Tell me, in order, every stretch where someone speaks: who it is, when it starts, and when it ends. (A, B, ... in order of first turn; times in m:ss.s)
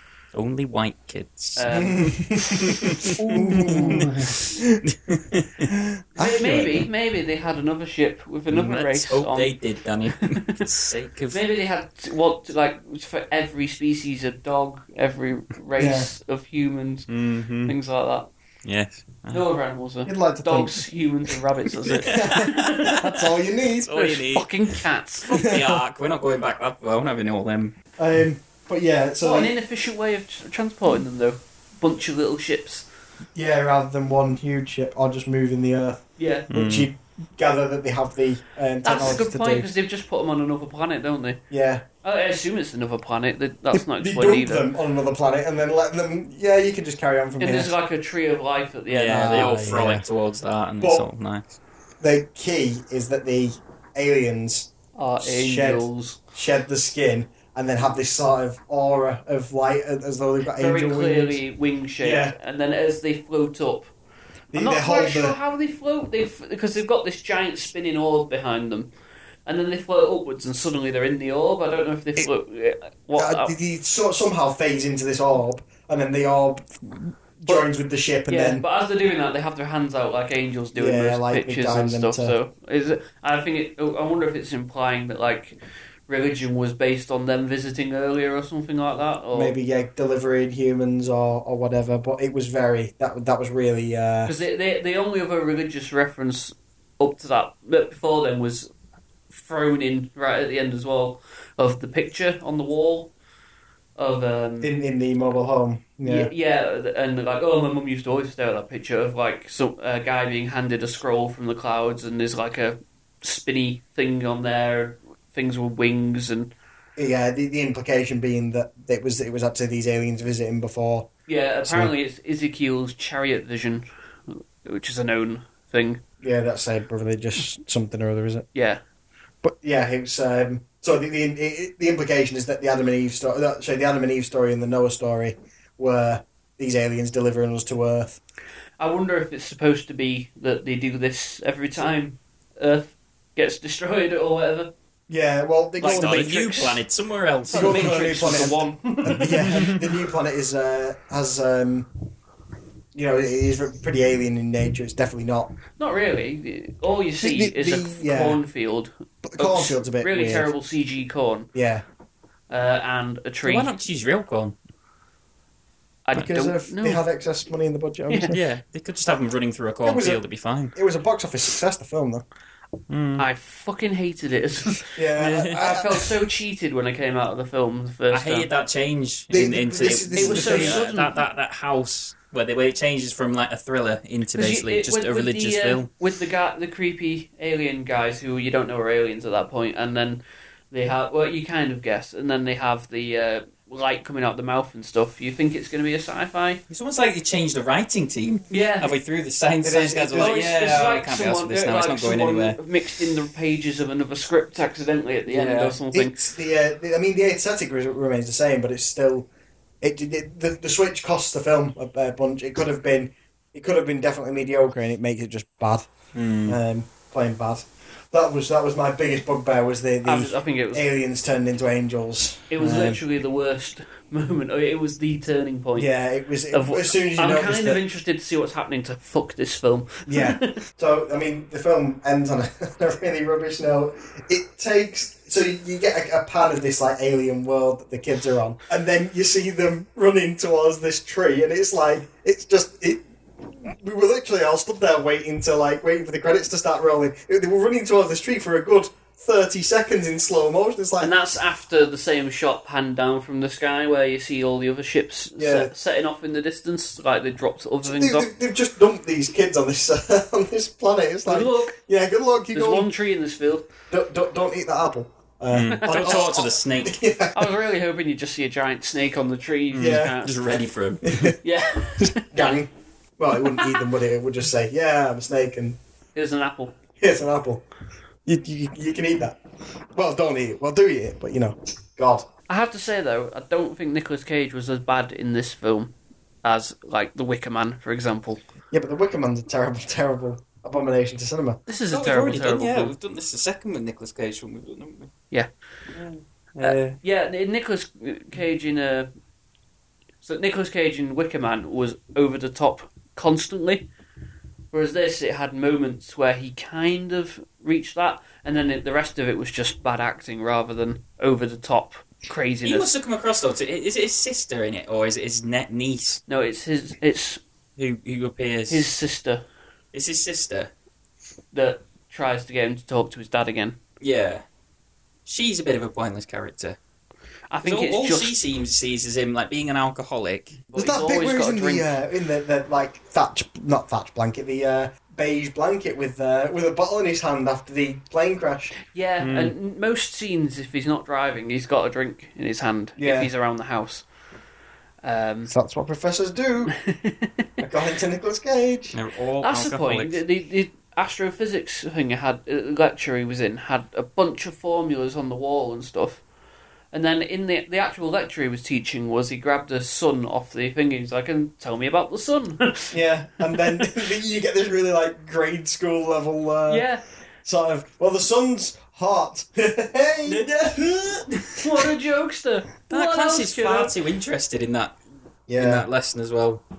0:00.3-0:02.0 A
0:01.6-0:04.1 B
0:01.7-0:04.8 C
0:02.7-0:05.7 A
0:05.7-0:06.9 C
0:06.2-0:09.6 B
0:08.5-0:11.4 A
0:10.2-0:10.7 B
0:11.3-0:17.1 B
0:15.8-0:16.1 C
0:17.1-0:17.7 A
0:17.7-0:18.3 B
0:18.6-0:19.4 A
0:19.3-0:23.0 B
0:20.1-0:20.9 C
0:21.8-0:24.8 A
0:22.0-0:23.9 C
0:23.9-0:25.4 B
0:25.3-0:27.8 A
0:25.3-0:25.8 C
0:28.0-0:29.5 C
0:29.2-0:32.9 B
0:33.4-0:39.7 C
0:36.2-0:36.5 B
0:36.5-0:36.9 A
0:38.8-0:41.4 B
0:41.5-0:41.8 C
0:42.0-0:44.7 B
0:43.7-0:47.7 C
0:47.4-0:49.7 B
0:48.9-0:51.6 A
0:49.0-0:50.0 C
0:50.8-0:51.0 C
0:52.0-1:01.4 C
0:55.0-0:56.2 B
1:00.6-1:03.9 B
1:02.0-1:02.4 C
1:04.5-1:05.4 C
1:04.5-1:08.9 B
1:09.5-1:13.5 B
1:13.2-1:18.6 C
1:18.3-1:25.6 B
1:20.8-1:22.4 C
1:26.1-1:29.6 B
1:29.3-1:34.3 C
1:34.3-1:38.7 B
1:39.3-1:43.1 B
1:44.0-1:44.7 B
1:44.6-1:46.3 C
1:46.0-1:56.5 B
1:57.0-2:01.1 C
2:01.3-2:06.0 B
2:01.6-2:01.9 C
2:06.2-2:08.5 C
2:08.5-2:08.8 B
2:09.4-2:18.2 C
2:18.8-2:24.7 B
2:25.1-2:26.3 C
2:25.8-2:26.8 B
2:25.8-2:28.3 A
2:27.5-2:29.7 B
2:27.6-2:31.9 C
2:33.0-2:35.5 C
2:35.8-2:41.5 B
2:37.2-2:38.4 C
2:39.2-2:40.5 C
2:41.6-2:41.8 C
2:42.5-2:43.7 B
2:43.4-2:44.6 A
2:46.0-2:47.0 B
2:46.2-2:48.3 C
2:48.1-2:48.4 B
2:48.3-2:50.7 A
2:49.8-2:50.2 C
2:50.7-2:52.2 C
2:52.9-2:53.3 A
2:53.2-2:58.5 B
2:54.9-2:56.2 C
2:55.2-2:55.7 A
2:58.1-3:05.9 A
2:59.3-3:00.9 C
3:00.1-3:01.2 B
3:04.4-3:16.6 B
3:16.7-3:22.6 A
3:18.5-3:18.9 B
3:19.6-3:20.4 C
3:20.2-3:26.3 B
3:25.2-3:25.8 A
3:25.9-3:29.3 C
3:29.8-3:35.9 C
3:36.1-3:36.6 A
3:36.5-3:43.0 C
3:40.0-3:40.8 B
3:42.5-3:45.9 B
3:45.8-3:47.8 C
3:46.5-3:50.5 B
3:50.1-4:03.0 C
4:03.6-4:11.2 C
4:11.0-4:18.3 B
4:15.4-4:15.7 C
4:17.8-4:22.9 C
4:21.2-4:21.8 B
4:22.5-4:23.7 B
4:23.9-4:27.5 C
4:25.5-4:27.0 A
4:25.6-4:26.5 B
4:27.4-4:30.6 B
4:29.7-4:31.3 A
4:29.8-4:30.2 C
4:31.0-4:31.4 C
4:31.4-4:32.5 B
4:32.0-4:35.8 C
4:33.4-4:33.8 B
4:36.2-4:36.8 B
4:37.0-4:37.6 C
4:38.3-4:39.4 C
4:40.0-4:42.3 C
4:42.5-4:48.4 B
4:48.7-4:51.6 C
4:51.7-4:52.9 B
4:51.9-4:55.1 A
4:55.9-4:57.0 A
4:56.6-4:59.1 B
5:00.2-5:03.9 B
5:04.7-5:12.9 B
5:12.6-5:16.2 A
5:16.3-5:17.4 B
5:17.8-5:18.9 A
5:18.7-5:19.5 B
5:19.9-5:20.7 A
5:21.5-5:23.8 B
5:24.0-5:24.4 A
5:25.3-5:26.8 A
5:27.5-5:28.4 B
5:27.6-5:30.6 A
5:30.7-5:32.0 B
5:30.8-5:38.7 C
5:38.8-5:44.1 B
5:39.2-5:39.5 A
5:43.0-5:43.3 C
5:45.0-5:45.5 B
5:45.5-5:46.7 C
5:46.8-5:47.5 B
5:47.6-5:49.0 C
5:48.9-5:50.2 A
5:49.4-5:56.2 B
5:56.9-6:04.1 B
6:02.9-6:06.9 C
6:06.7-6:07.0 B
6:07.4-6:10.5 C
6:10.3-6:11.4 A
6:11.6-6:13.9 B
6:12.9-6:15.0 A
6:15.5-6:15.9 C
6:15.6-6:16.6 A